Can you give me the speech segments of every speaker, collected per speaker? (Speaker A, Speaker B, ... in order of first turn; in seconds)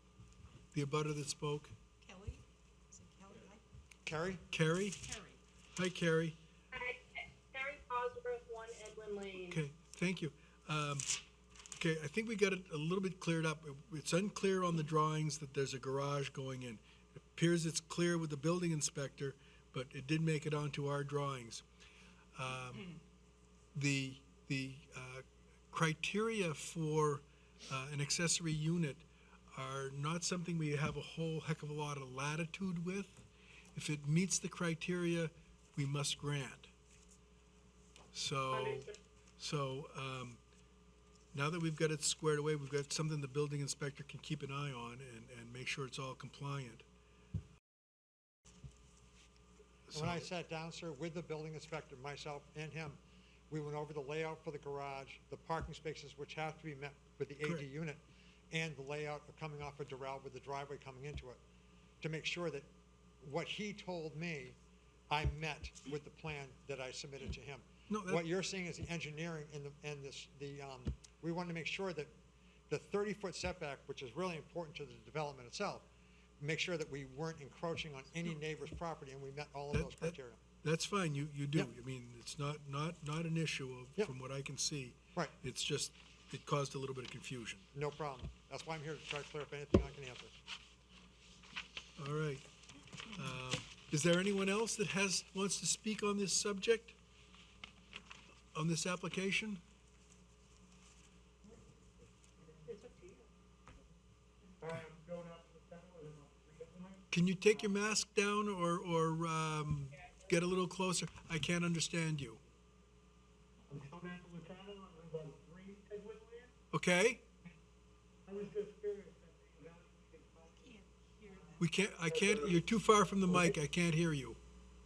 Speaker A: 0.7-1.7, 4.5-5.0, 5.8-6.3, 9.5-11.1, 11.7-21.6, 22.3-22.9, 23.7-36.7, 38.1-38.9, 39.4-40.4, 41.3-46.8, 49.9-50.3, 67.9-68.2, 79.7-87.7, 92.0-92.4, 93.1-97.0, 98.5-99.6, 107.1-112.4, 116.7-117.2, 121.6-124.4
Speaker B: 2.0-3.6, 5.0-5.4, 102.7-103.0, 120.5-121.6
Speaker C: 4.0-4.4, 49.9-61.4, 62.0-62.7, 63.2-64.6, 65.1-72.1, 72.7-75.8, 76.4-80.4, 87.7-90.3
Speaker D: 6.7-9.6, 38.5-39.0, 102.7-103.2
Speaker E: 105.0-106.7, 113.7-116.5, 118.3-120.2